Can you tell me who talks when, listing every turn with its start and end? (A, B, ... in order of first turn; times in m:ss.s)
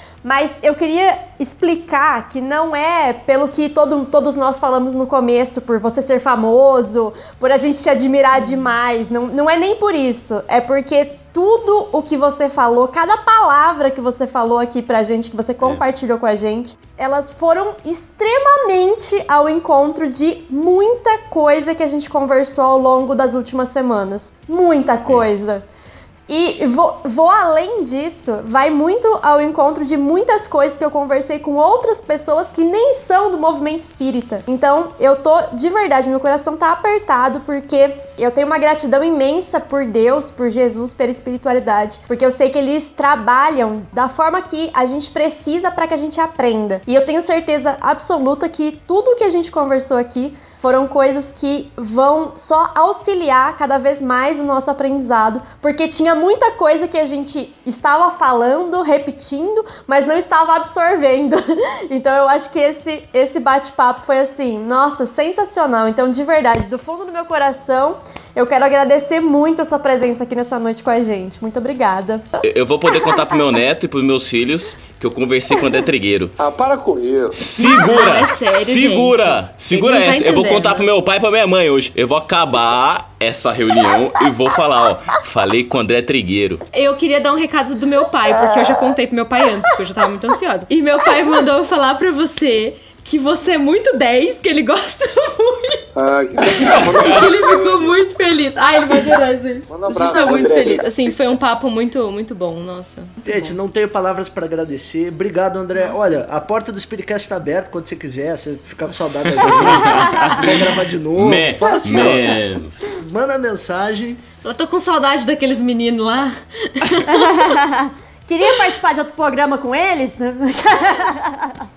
0:00.2-0:25.6 A
0:08.4-0:08.7 B
0:26.3-1:12.3 A
1:12.4-1:16.4 C
1:16.4-1:17.4 D
1:17.3-1:26.6 C
1:17.6-1:20.9 B
1:26.7-1:35.8 B
1:35.9-1:38.0 D
1:37.0-1:43.5 B
1:39.7-1:40.8 D
1:40.2-1:40.5 E
1:43.2-1:54.2 E
1:45.8-1:46.2 B
1:49.3-1:52.9 C
1:54.4-1:57.3 B
1:57.1-2:01.6 A